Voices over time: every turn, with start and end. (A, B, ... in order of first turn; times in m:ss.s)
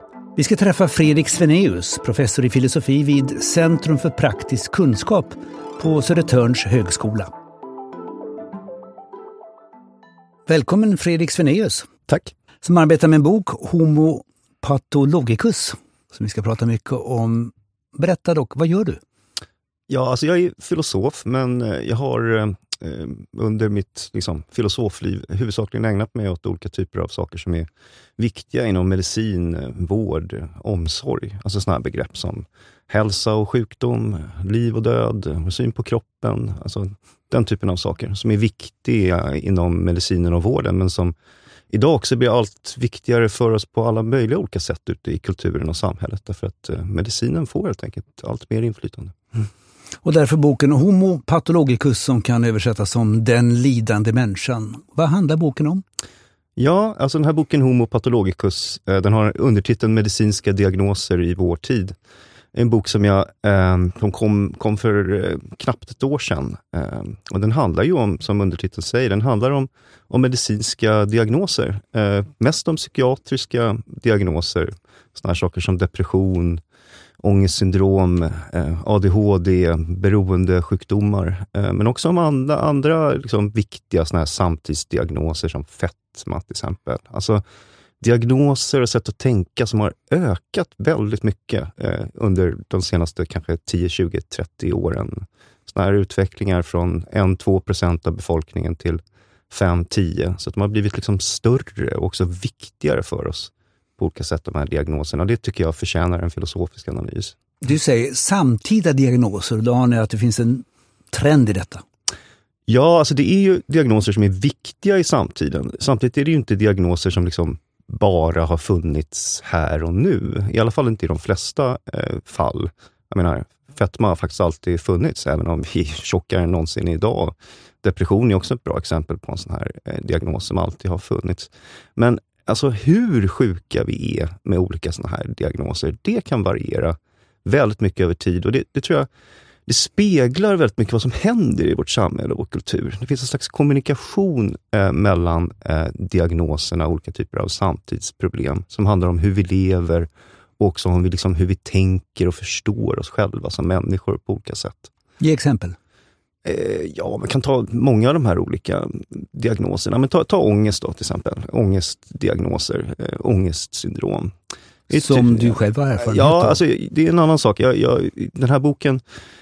0:00.4-0:07.3 A
0:10.5-0:11.9 A
0:12.1-0:12.3 B
0:12.6-0:19.0 A
0:19.9-0:27.7 B
0:28.2-0:41.1 B
0:41.7-0:49.2 B
0:50.0-0:55.8 A
0:56.6-1:02.0 B
1:02.5-1:16.6 B
1:17.2-1:27.4 B
1:28.0-1:47.4 B
1:47.6-1:51.8 A
1:52.7-2:19.1 B
2:19.7-2:34.9 B
2:35.2-2:35.8 A
2:36.4-2:44.3 B
2:44.9-2:46.6 A
2:44.9-2:49.0 B